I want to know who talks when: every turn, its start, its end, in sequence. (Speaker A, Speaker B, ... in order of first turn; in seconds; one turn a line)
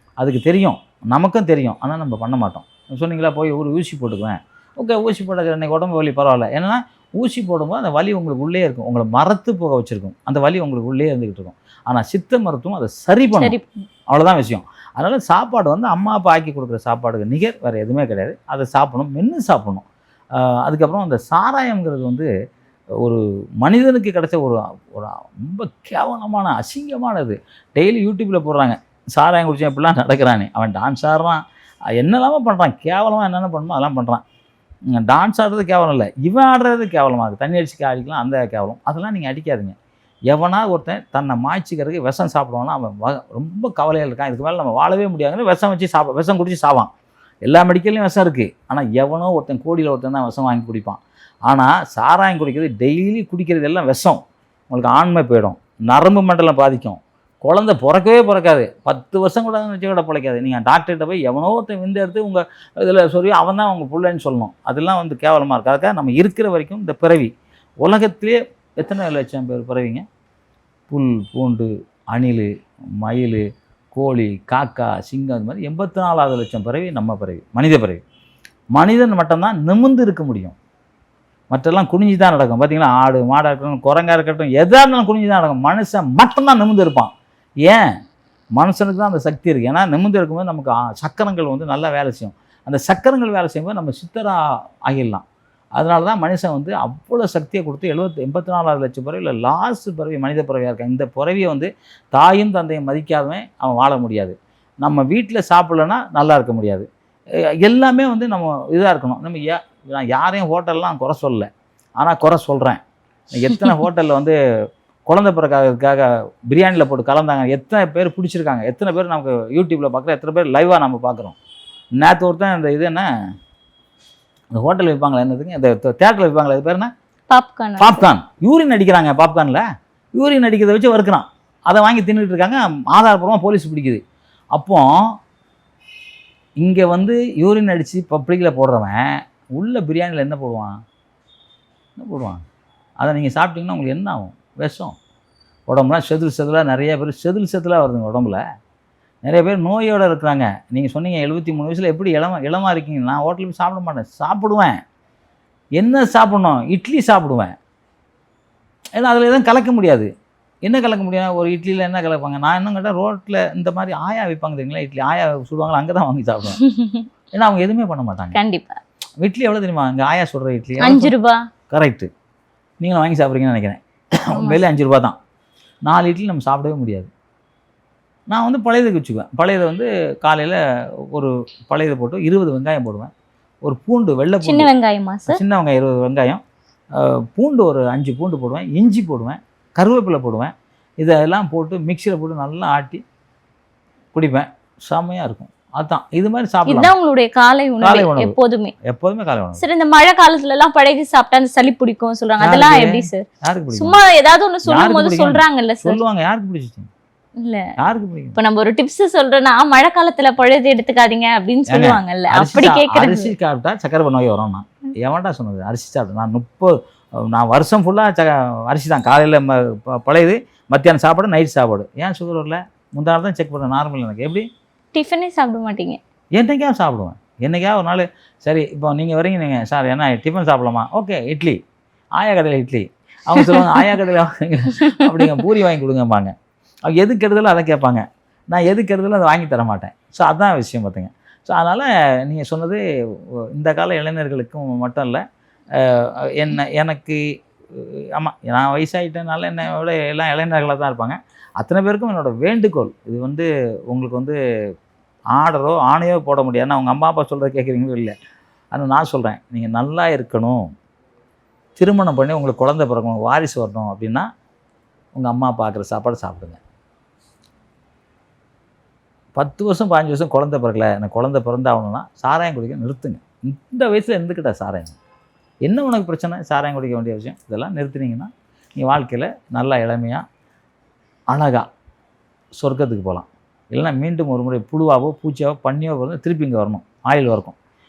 Speaker A: 0.2-13.6
Speaker B: 13.4-13.8
Speaker A: 14.1-19.9
Speaker A: 20.4-22.3
Speaker A: 23.0-31.4
Speaker A: 31.9-34.2
Speaker A: 34.9-39.8
Speaker A: 40.3-46.9
Speaker A: 47.5-67.3
Speaker A: 67.8-70.0
Speaker A: 70.9-78.0
Speaker A: 78.8-80.6
Speaker A: 81.5-87.1
Speaker A: 88.6-95.2
Speaker A: 95.8-106.9
Speaker A: 107.6-111.5
Speaker A: 112.0-114.4
Speaker A: 115.1-121.4
Speaker A: 122.0-123.1
Speaker A: 124.5-126.9
Speaker B: 127.3-128.1
Speaker A: 127.8-129.6
Speaker A: 130.1-134.0
Speaker A: 134.6-134.9
Speaker A: 136.6-140.8
Speaker A: 142.0-142.4
Speaker A: 143.0-144.9
Speaker A: 145.7-148.4
Speaker A: 149.2-154.8
Speaker A: 155.8-157.5
Speaker A: 159.0-160.1
Speaker A: 160.6-166.6
Speaker B: 166.6-167.1
Speaker A: 167.3-168.4
Speaker B: 168.3-168.8
Speaker A: 169.2-171.1
Speaker B: 170.8-171.4
Speaker A: 171.7-172.1
Speaker A: 172.8-175.2
Speaker B: 174.3-174.6
Speaker A: 175.9-177.1
Speaker A: 178.3-180.6
Speaker A: 181.1-183.1
Speaker A: 183.6-184.7
Speaker B: 184.4-185.4
Speaker A: 185.3-186.4
Speaker A: 187.0-193.0
Speaker A: 194.1-196.9
Speaker B: 196.7-198.7
Speaker A: 197.8-199.6
Speaker B: 199.6-206.0
Speaker A: 202.4-204.0
Speaker A: 204.7-206.9
Speaker B: 207.4-207.7
Speaker A: 207.8-208.4
Speaker B: 208.3-213.3
Speaker A: 211.7-224.5
Speaker B: 224.9-226.0
Speaker A: 226.4-231.6
Speaker A: 232.2-236.3
Speaker A: 236.9-242.8
Speaker A: 243.5-245.2
Speaker A: 245.8-247.2
Speaker A: 247.7-254.4
Speaker A: 255.3-258.1
Speaker A: 258.7-260.6
Speaker A: 261.8-264.3
Speaker A: 265.1-266.6
Speaker A: 269.4-275.0
Speaker A: 275.7-280.2
Speaker A: 281.3-281.6
Speaker A: 282.6-287.6